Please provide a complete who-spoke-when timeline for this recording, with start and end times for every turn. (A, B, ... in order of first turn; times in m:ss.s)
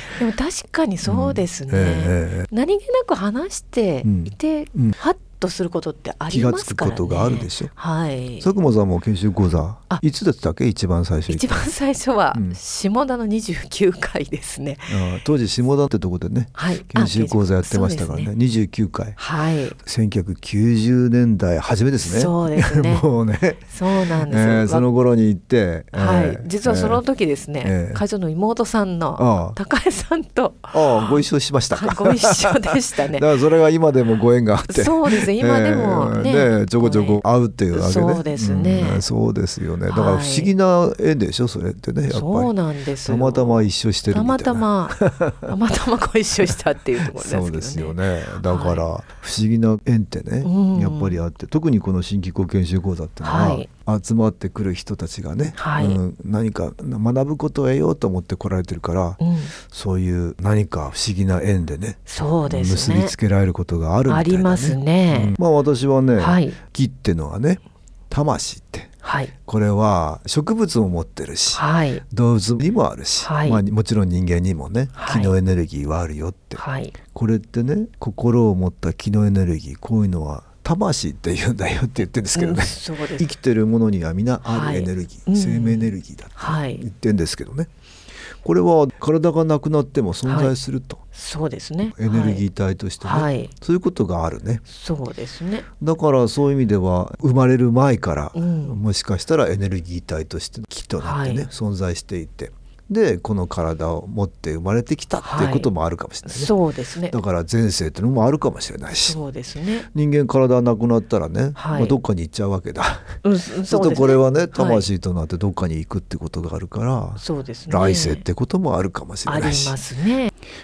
0:00.2-0:08.5 A
0:01.0-0:02.5 B
0:04.0-0:05.0 B
0:06.3-0:07.7 B
0:08.4-0:11.7 B
0:11.3-0:15.0 A
0:14.9-0:19.2 B
0:16.5-0:18.3 A
0:19.2-0:19.8 A
0:19.8-0:27.0 B
0:22.0-0:23.1 A
0:23.6-0:24.8 A
0:25.9-0:31.2 A
0:27.6-0:28.0 B
0:29.2-0:29.6 B
0:30.7-0:45.3 B
0:31.7-0:33.3 A
0:34.7-0:39.0 A
0:39.9-0:40.5 A
0:42.1-0:48.8 A
0:47.1-1:08.9 B
0:50.4-0:51.2 A
0:53.2-0:53.7 A
0:55.6-0:56.0 A
0:59.2-0:59.5 A
1:02.1-1:03.1 A
1:04.1-1:05.3 A
1:06.2-1:06.6 A
1:09.0-1:09.3 A
1:09.5-1:27.7 B
1:11.5-1:12.0 A
1:13.2-1:13.6 A
1:15.0-1:15.3 A
1:16.6-1:16.9 A
1:22.3-1:23.3 A
1:24.4-1:26.8 A
1:28.4-1:31.0 B
1:30.2-1:30.5 A
1:31.1-1:32.4 A
1:31.9-1:34.6 B
1:33.0-1:33.5 A
1:34.7-1:35.6 A
1:35.8-1:46.5 B
1:38.3-1:38.8 A
1:41.0-1:41.4 A
1:45.2-1:45.7 A
1:46.2-1:47.1 A
1:47.1-1:49.2 B
1:48.9-1:49.9 A
1:49.9-1:53.1 B
1:51.6-1:52.0 A
1:53.2-1:54.9 A
1:53.7-1:59.8 B
1:57.2-1:58.2 A
1:59.2-2:00.3 A